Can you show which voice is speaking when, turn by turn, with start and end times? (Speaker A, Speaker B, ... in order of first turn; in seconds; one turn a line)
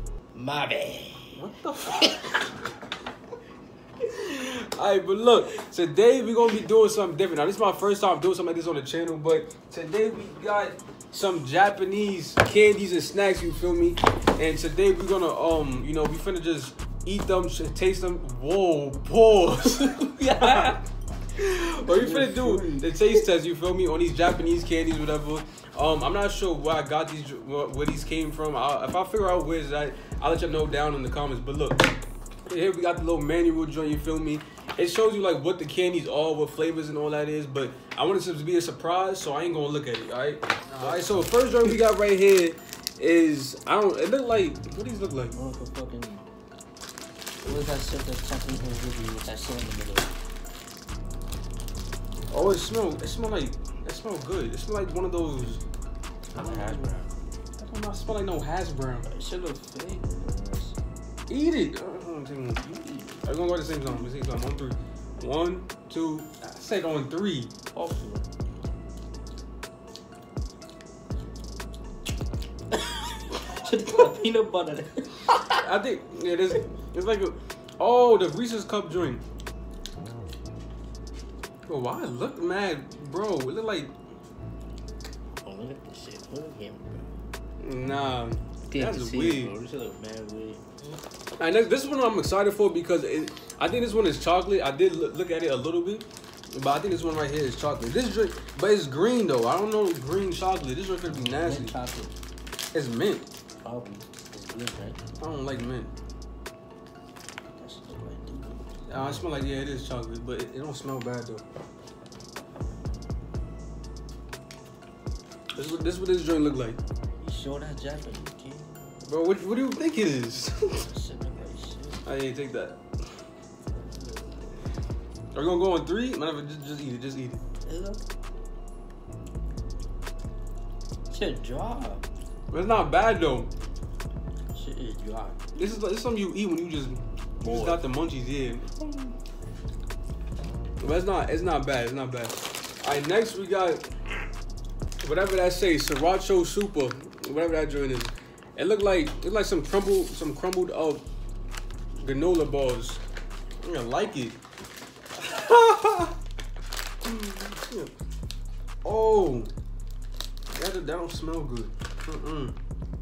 Speaker A: 0.3-2.5
Speaker B: 1.3-2.1
Speaker B: 4.1-20.8
Speaker A: 19.6-20.8
Speaker B: 21.4-31.9
Speaker A: 21.8-23.2
Speaker B: 32.5-45.4
Speaker A: 45.3-46.2
Speaker A: 47.4-50.1
Speaker B: 52.3-55.6
Speaker A: 56.3-57.1
Speaker B: 56.4-56.9
Speaker B: 57.6-59.1
Speaker A: 59.1-60.8
Speaker B: 61.3-62.6
Speaker A: 62.6-63.4
Speaker B: 63.2-67.5
Speaker A: 67.7-68.3
Speaker A: 72.7-75.6
Speaker B: 75.5-79.2
Speaker B: 81.7-83.9
Speaker A: 85.4-87.1
Speaker B: 87.6-89.5
Speaker A: 88.7-91.0
Speaker B: 91.4-101.8
Speaker A: 101.3-102.2
Speaker B: 102.7-103.3
Speaker A: 103.6-105.0
Speaker B: 105.2-105.9
Speaker A: 107.5-108.8
Speaker B: 108.9-111.4
Speaker B: 115.5-116.8
Speaker A: 117.2-119.1
Speaker B: 119.0-120.9
Speaker A: 120.7-122.0
Speaker B: 122.0-122.8
Speaker A: 123.7-124.5
Speaker B: 125.3-127.4
Speaker A: 127.6-128.0
Speaker A: 131.1-132.0
Speaker B: 132.5-133.5
Speaker A: 134.5-135.4
Speaker B: 135.6-138.7
Speaker A: 137.4-137.9
Speaker A: 138.8-139.1
Speaker B: 140.8-143.8
Speaker B: 145.0-151.1
Speaker B: 152.0-153.0
Speaker B: 153.6-154.4
Speaker B: 155.2-156.1
Speaker B: 157.0-157.9
Speaker B: 158.8-159.5
Speaker B: 160.5-162.6